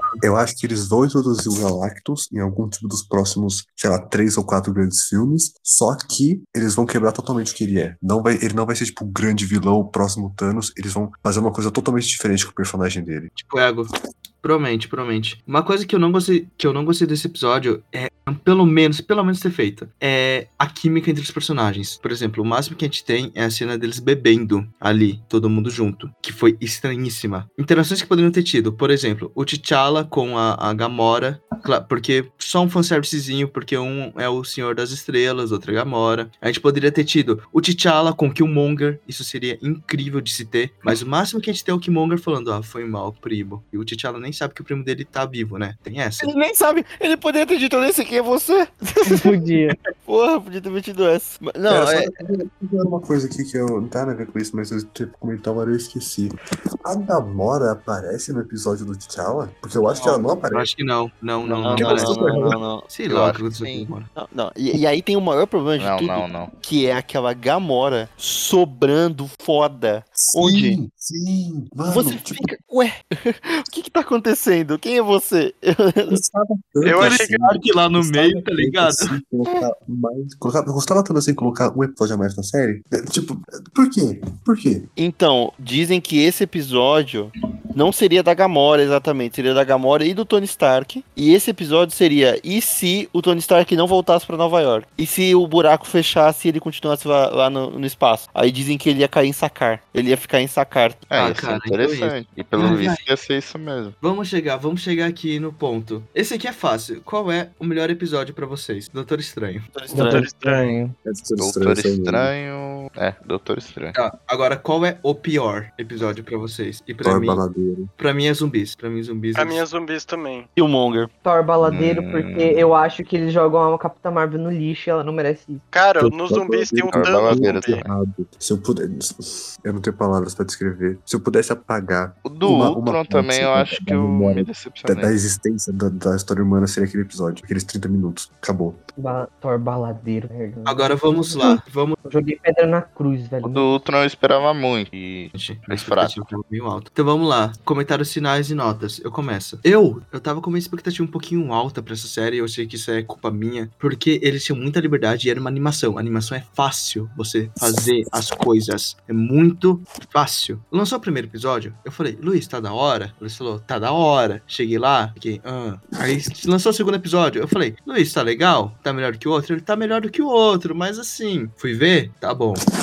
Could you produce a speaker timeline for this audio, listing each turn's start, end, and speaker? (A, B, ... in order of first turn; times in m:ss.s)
0:00.2-0:13.3 A
0:13.3-0:13.9 B
0:14.4-0:46.3 B
0:46.2-0:52.1 C
0:49.0-0:49.8 D
0:51.7-0:56.3 A
0:56.8-1:00.7 A
0:59.9-1:04.1 B
1:01.4-1:02.8 C
1:01.7-1:02.6 A
1:03.1-1:03.9 E
1:04.1-1:10.8 C
1:05.8-1:06.5 E
1:10.2-1:12.5 A
1:11.9-1:16.2 C
1:16.1-1:24.9 A
1:16.8-1:17.6 F
1:16.8-1:19.2 B
1:25.0-1:41.1 C
1:41.1-1:43.9 E
1:41.1-1:43.0 B
1:44.0-1:49.7 B
1:49.7-1:50.7 C
1:49.9-1:50.9 D
1:50.0-1:50.8 F
1:51.0-1:52.3 A
1:51.4-1:53.9 E
1:53.9-1:57.4 B
1:57.0-1:57.9 A
1:58.0-1:59.6 B
1:59.4-2:00.5 F
2:00.6-2:01.1 C
2:01.2-2:05.6 D
2:01.6-2:02.7 E
2:05.7-2:07.8 F
2:06.0-2:18.8 A
2:06.9-2:07.9 E
2:12.2-2:15.1 E
2:19.0-2:23.8 D
2:20.6-2:22.0 B
2:23.4-2:26.2 E
2:25.3-2:52.6 B